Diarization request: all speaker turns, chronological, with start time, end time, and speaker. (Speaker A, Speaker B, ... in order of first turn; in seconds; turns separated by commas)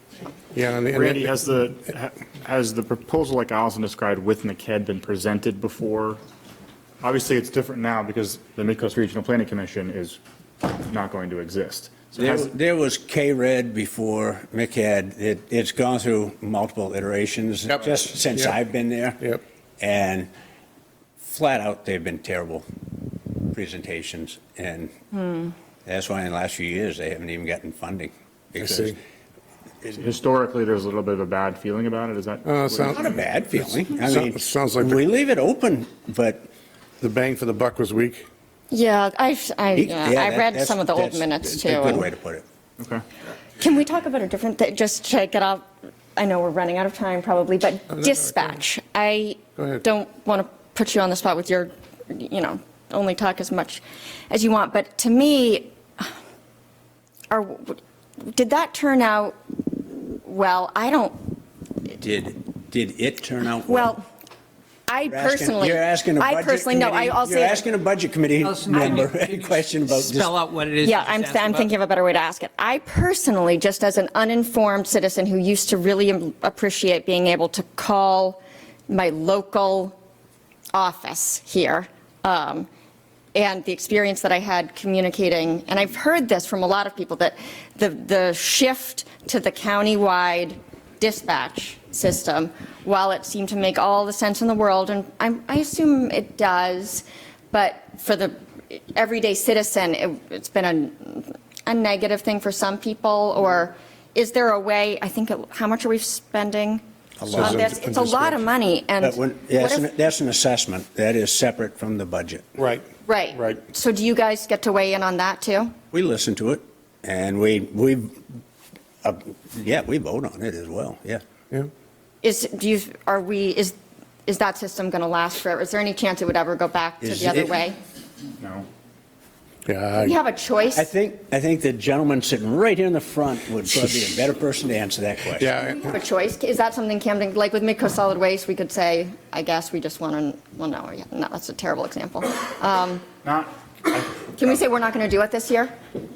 Speaker A: 0.5-1.3, Speaker B: 0.9-6.2, Speaker B: 7.0-12.5, Speaker C: 12.2-19.2, Speaker A: 17.7-18.6, Speaker C: 19.8-20.3, Speaker C: 21.2-22.6, Speaker C: 23.4-24.9, Speaker C: 25.8-29.0, Speaker A: 28.6-28.9, Speaker B: 29.9-33.0, Speaker A: 32.5-33.0, Speaker C: 32.9-36.5, Speaker A: 33.5-35.0, Speaker A: 37.0-38.2, Speaker D: 38.7-42.1, Speaker C: 39.7-42.4, Speaker D: 43.6-56.1, Speaker A: 47.9-48.6, Speaker A: 49.6-49.8, Speaker D: 57.3-61.4, Speaker C: 62.0-64.0, Speaker D: 63.6-64.0, Speaker D: 64.9-67.6, Speaker C: 65.1-70.3, Speaker E: 68.5-71.6, Speaker D: 70.8-80.0, Speaker D: 80.7-82.7, Speaker D: 83.3-106.8, Speaker C: 107.2-107.7, Speaker A: 107.3-108.5, Speaker D: 107.4-109.9, Speaker C: 109.0-112.5, Speaker A: 112.5-113.6, Speaker D: 113.0-115.7, Speaker C: 115.9-118.2, Speaker C: 119.0-121.2, Speaker D: 122.2-127.8, Speaker C: 127.0-127.5, Speaker B: 128.4-128.7, Speaker A: 129.7-130.1, Speaker D: 129.9-130.9, Speaker C: 130.7-135.6, Speaker A: 135.4-135.8, Speaker D: 135.7-143.1, Speaker B: 143.2-144.1, Speaker D: 144.2-145.7